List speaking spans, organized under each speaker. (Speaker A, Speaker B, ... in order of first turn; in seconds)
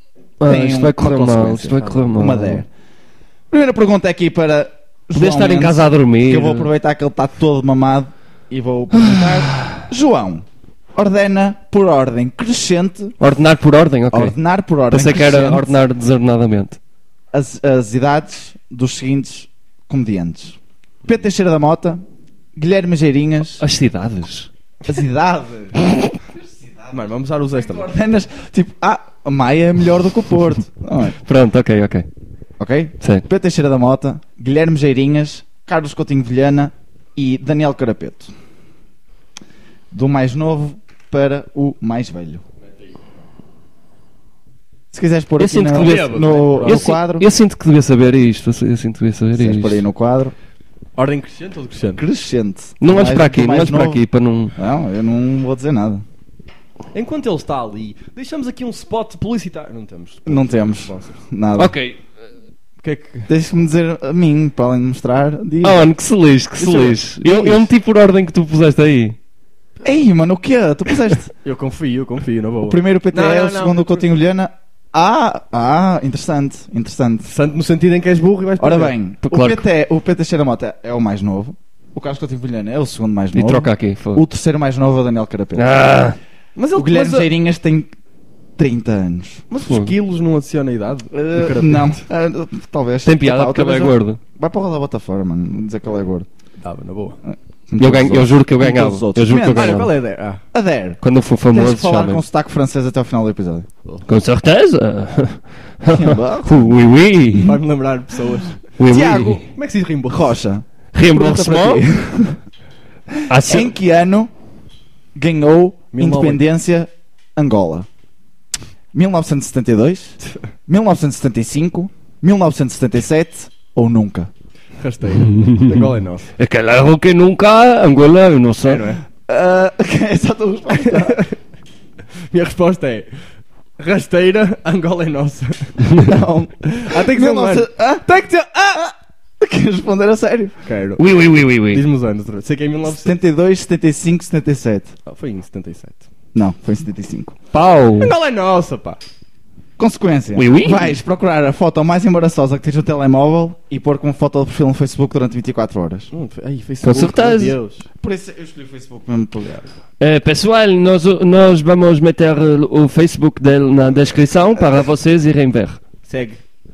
Speaker A: 0.4-2.6, 5.1-6.7, 8.9-9.9, 13.2-14.3, 14.9-16.8, 23.6-24.5, 31.2-32.1, 45.4-49.8, 52.8-54.5, 61.6-62.0, 65.6-69.2, 79.2-79.6, 83.3-84.2, 85.5-86.2, 89.7-89.9, 93.0-94.2, 97.8-99.9, 101.0-102.2, 104.1-107.6, 108.8-109.5, 110.9-111.8, 113.3-113.7, 126.4-128.9, 141.0-141.9, 147.5-148.1, 150.3-150.9, 156.8-157.6, 160.0-165.8
Speaker B: 0.4-2.7, 3.5-13.2, 14.1-15.8, 17.3-22.0, 22.6-23.6, 24.9-26.9, 27.5-31.2, 32.6-38.3, 39.9-42.4, 44.9-47.3, 49.4-50.3, 52.0-54.0, 54.6-56.0, 60.3-61.7, 63.3-65.8, 69.8-71.3, 72.7-77.3, 78.6-85.8, 86.8-87.9, 88.6-89.4, 91.1-96.3, 97.3-99.9, 100.5-103.7, 105.9-106.8, 108.9-109.5, 110.1-112.4, 113.1-114.3, 115.2-117.9, 118.9-124.3, 129.3-131.2, 136.0-138.1, 139.4-140.6, 142.8-144.9, 146.3-147.4, 149.8-156.1, 158.0-159.7
Speaker C: 26.9-27.9, 42.7-43.0, 45.7-46.9, 51.0-52.0, 56.9-61.2, 62.8-63.3, 66.6-67.7, 71.4-74.0, 77.2-79.0, 86.6-87.3, 89.5-92.0, 96.6-97.2, 99.4-100.4, 107.3-108.6, 109.5-110.4, 115.9-116.4, 124.8-126.3, 128.6-129.0, 130.7-131.4, 132.2-135.9, 136.7-138.9, 140.6-143.2, 145.1-146.1, 148.0-149.0, 156.1-157.8, 166.1-166.4